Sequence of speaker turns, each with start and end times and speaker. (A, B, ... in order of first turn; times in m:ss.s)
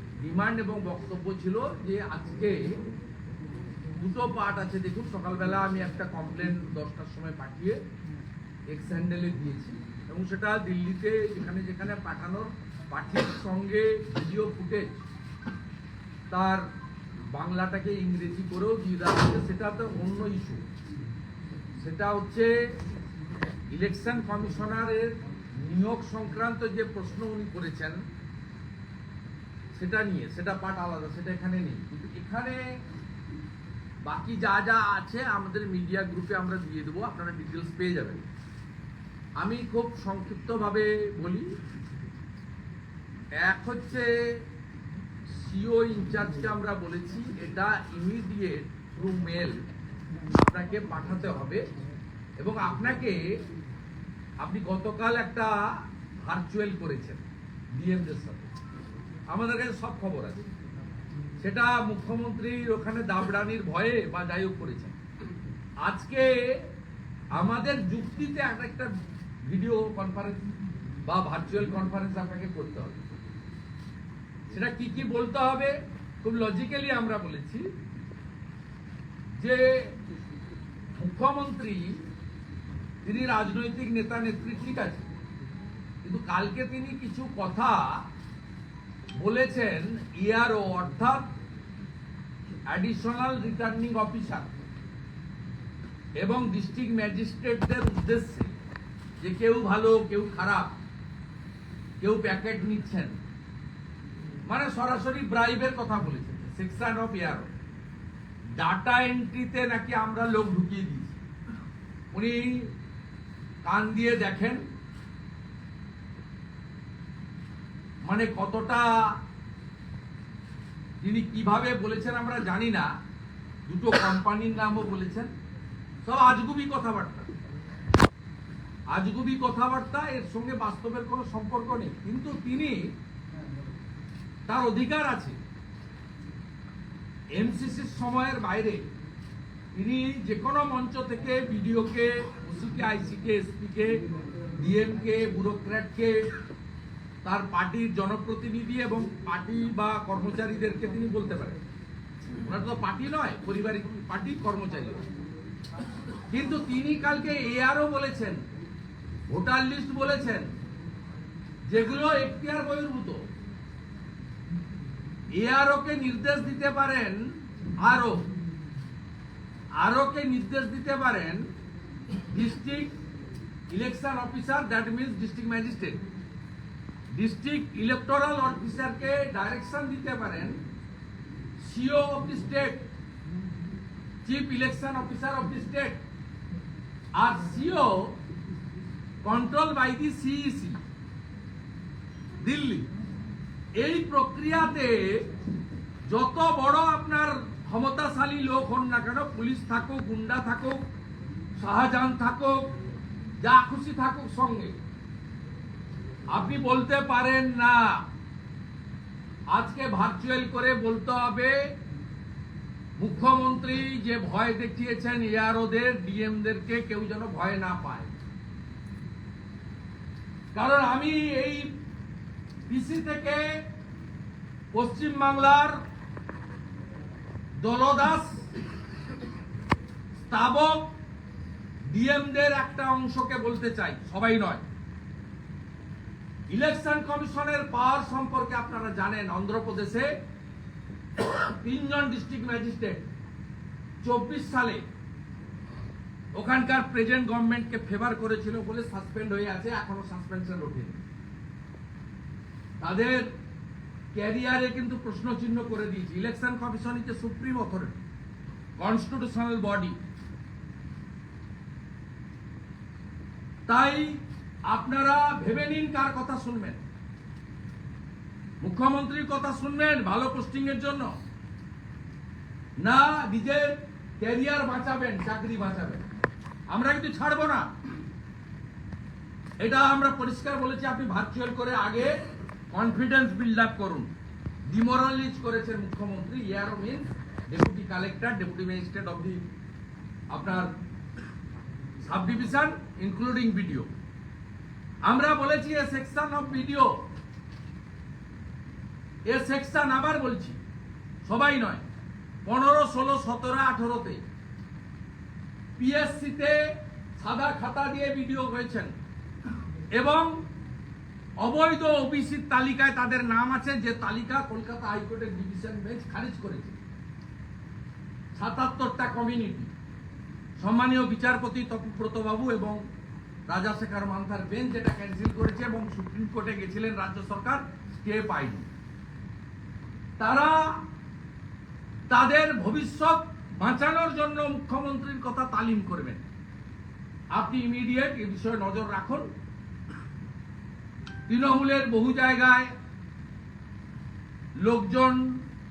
0:00.2-0:02.8 A
0:04.0-0:07.8 A
0:08.7-0:15.0 A
0:16.3-0:16.7 A
0:17.3-0:20.6 A
0:21.8-0:22.5 A
0:23.7-0:28.0 A
0:29.7-0:32.6 A
0:34.0-0:38.2 A
0:39.4-0:41.5 A
0:43.4-0:44.1 A
0:45.3-0:49.6 A
0:50.3-0:51.6 A
0:52.4-0:53.3 A
0:54.4-0:57.2 A
0:57.7-0:58.5 A
0:59.3-1:00.4 A
1:01.4-1:05.0 A
1:05.8-1:06.7 A
1:07.3-1:08.9 A
1:09.4-1:10.5 A
1:11.0-1:13.0 A
1:14.5-1:17.7 A
1:19.4-1:20.0 A
1:21.0-1:22.0 A
1:23.0-1:25.1 A
1:26.0-1:28.0 A
1:29.2-1:31.3 A
1:32.7-1:34.5 A
1:36.2-1:38.6 A
1:39.2-1:40.7 A
1:42.0-1:43.2 A
1:44.4-1:47.5 A
1:48.6-1:51.2 A
1:52.1-1:52.7 A
1:53.6-1:54.6 A
1:58.0-1:59.1 A
2:01.0-2:02.9 A
2:03.7-2:05.3 A
2:06.0-2:07.3 A
2:08.9-2:12.9 A
2:14.5-2:15.4 A
2:17.3-2:18.8 A
2:19.8-2:24.0 A
2:24.6-2:26.2 A
2:27.2-2:31.6 A
2:32.4-2:35.0 A
2:36.3-2:38.4 A
2:39.3-2:40.5 A
2:41.7-2:43.2 A
2:45.3-2:47.3 A
2:47.8-2:48.2 A
2:49.8-2:51.5 A
2:52.2-2:52.9 A
2:53.7-2:56.0 A
2:57.1-3:00.6 A
3:01.6-3:02.9 A
3:04.2-3:06.0 A
3:07.2-3:08.2 A
3:09.2-3:10.8 A
3:12.4-3:12.9 A
3:13.8-3:15.3 A
3:16.0-3:20.8 A
3:21.6-3:22.8 A
3:23.4-3:24.7 A
3:26.3-3:28.0 A
3:29.5-3:31.7 A
3:33.0-3:38.1 A
3:40.5-3:41.7 A
3:42.7-3:43.6 A
3:44.7-3:45.8 A
3:47.6-3:48.5 A
3:50.2-3:50.9 A
3:51.9-3:54.6 A
3:56.5-4:00.1 A
4:01.2-4:03.1 A
4:04.0-4:04.8 A
4:06.3-4:11.0 A
4:12.8-4:13.3 A
4:14.1-4:18.0 A
4:18.8-4:20.0 A
4:23.7-4:26.8 A
4:28.6-4:31.1 A
4:32.8-4:36.0 A
4:36.7-4:37.7 A
4:39.6-4:42.2 A
4:42.7-4:44.1 A
4:44.7-4:49.4 A
4:50.3-4:50.7 A
4:52.0-4:53.9 A
4:55.0-4:57.0 A
4:59.3-5:00.6 A
5:01.2-5:01.8 A
5:02.4-5:04.2 A
5:05.8-5:08.9 A
5:09.9-5:10.4 A
5:11.4-5:16.8 A
5:18.4-5:19.7 A
5:20.6-5:22.8 A
5:23.5-5:28.7 A
5:30.2-5:30.8 A
5:32.1-5:36.2 A
5:37.3-5:39.3 A
5:41.3-5:42.7 A
5:44.6-5:45.4 A